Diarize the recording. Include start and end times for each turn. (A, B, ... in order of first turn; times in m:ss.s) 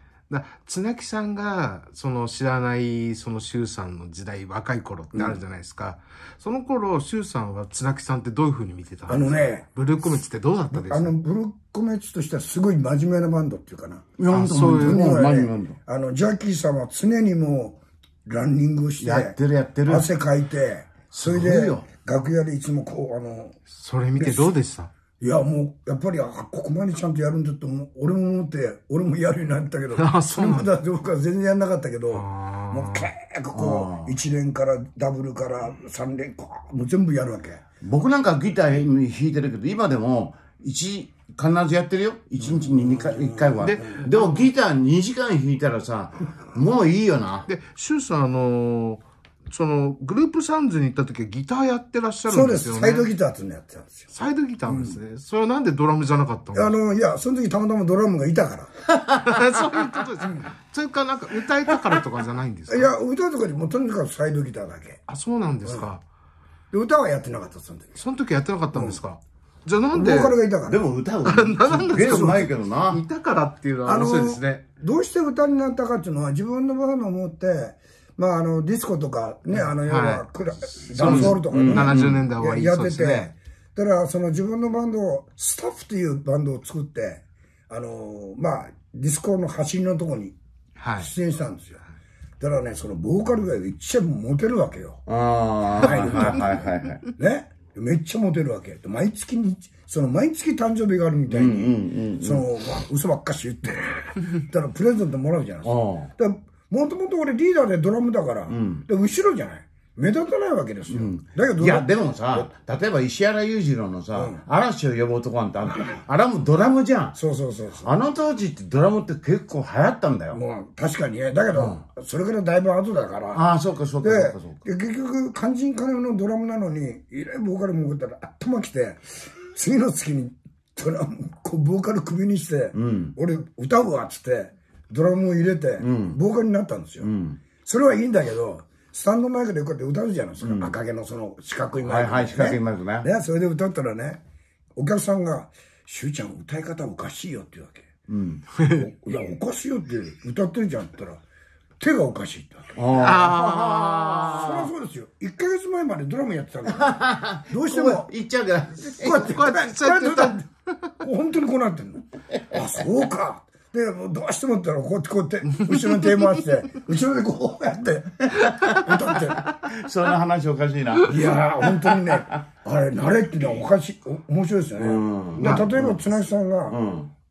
0:00.3-0:11.1 A
0:09.1-0:09.6 B
0:10.7-0:19.4 B
0:14.2-0:15.8 C
0:14.3-0:15.2 A
0:19.0-0:20.1 C
0:19.9-0:23.6 B
0:21.1-0:21.8 C
0:23.7-0:24.9 A
0:24.2-0:24.5 B
0:25.2-0:37.6 B
0:30.0-0:30.7 A
0:32.1-0:33.1 A
0:33.5-0:34.1 C
0:37.8-0:47.5 C
0:42.4-0:43.9 B
0:43.6-0:44.5 A
0:47.4-0:53.1 A
0:52.3-0:54.0 B
0:54.1-0:56.8 A
0:54.6-0:55.0 B
0:56.5-0:58.7 B
0:59.1-1:02.9 A
1:00.2-1:00.5 B
1:02.7-1:05.0 B
1:05.1-1:06.0 A
1:06.7-1:08.0 B
1:08.0-1:10.4 A
1:09.9-1:10.8 B
1:10.6-1:13.0 C
1:11.2-1:14.6 A
1:12.0-1:12.5 B
1:13.8-1:30.4 B
1:19.5-1:20.2 A
1:21.0-1:23.3 A
1:21.0-1:22.2 C
1:30.8-1:31.1 A
1:31.0-1:31.8 B
1:32.4-1:35.0 B
1:35.1-1:37.0 C
1:35.8-1:36.6 B
1:37.2-1:52.5 B
1:41.3-1:42.4 C
1:45.6-1:46.1 C
1:48.5-1:48.8 C
1:50.9-1:57.2 C
1:54.1-1:54.4 B
1:57.2-1:57.9 B
1:57.8-2:00.4 C
2:00.3-2:03.4 B
2:01.5-2:01.8 C
2:03.3-2:04.6 C
2:04.0-2:17.1 B
2:12.7-2:13.1 C
2:15.8-2:16.2 C
2:17.0-2:17.4 C
2:17.6-2:24.2 B
2:20.4-2:20.7 C
2:21.8-2:23.1 C
2:24.8-2:27.9 B
2:28.1-2:28.4 C
2:28.6-2:28.8 A
2:28.7-2:31.2 B
2:31.8-2:32.8 B
2:32.8-2:34.7 C
2:32.9-2:34.4 A
2:34.3-2:38.1 B
2:36.7-2:39.3 C
2:38.8-2:40.5 B
2:39.0-2:40.4 A
2:41.0-2:49.4 B
2:48.3-2:52.2 C
2:51.0-2:56.8 B
2:54.8-2:56.0 C
2:55.4-2:55.6 A
2:56.7-2:57.1 C